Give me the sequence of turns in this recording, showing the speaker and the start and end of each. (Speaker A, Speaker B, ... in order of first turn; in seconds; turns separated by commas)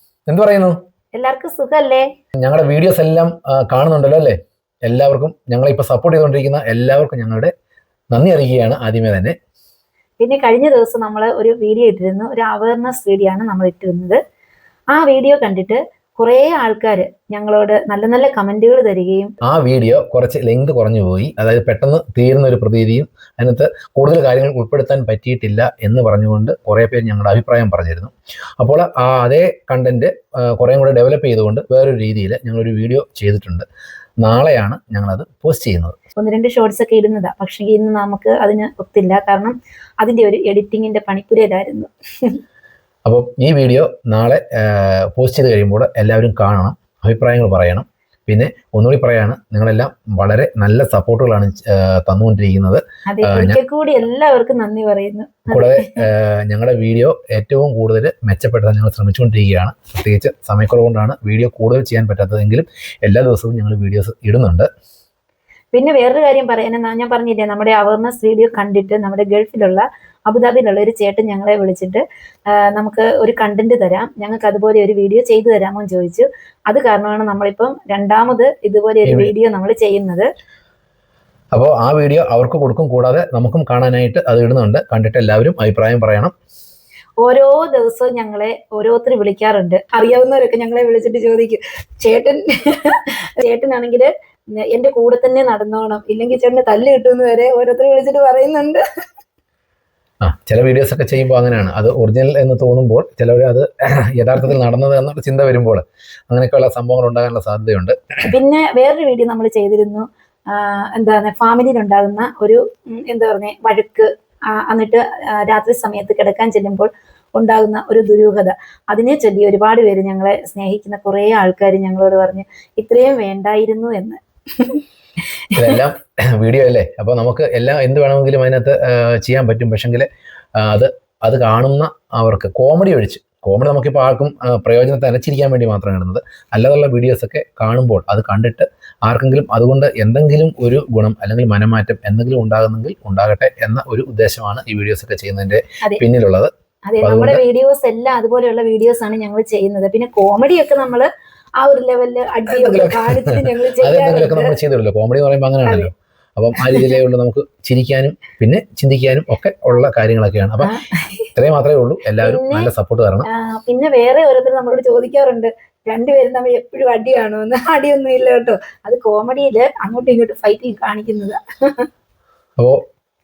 Speaker A: 0.3-0.8, Speaker B: 1.1-2.1, Speaker A: 2.4-7.5, Speaker A: 8.1-9.3, Speaker B: 10.2-14.2, Speaker B: 14.9-19.3, Speaker A: 19.4-33.6, Speaker A: 34.2-36.0, Speaker B: 36.2-42.4, Speaker A: 43.0-53.6, Speaker B: 53.1-56.1, Speaker A: 55.5-64.7, Speaker B: 65.7-80.3, Speaker A: 79.0-79.3, Speaker A: 81.5-86.3, Speaker B: 87.2-98.8, Speaker A: 100.2-108.3, Speaker B: 108.2-124.8, Speaker B: 125.5-125.8, Speaker A: 125.5-146.5, Speaker B: 146.9-154.6, Speaker A: 147.0-147.4, Speaker A: 152.5-160.7, Speaker B: 155.6-155.9, Speaker B: 156.6-156.9, Speaker B: 160.6-161.3, Speaker A: 161.3-163.3, Speaker B: 162.2-162.7, Speaker B: 163.2-171.9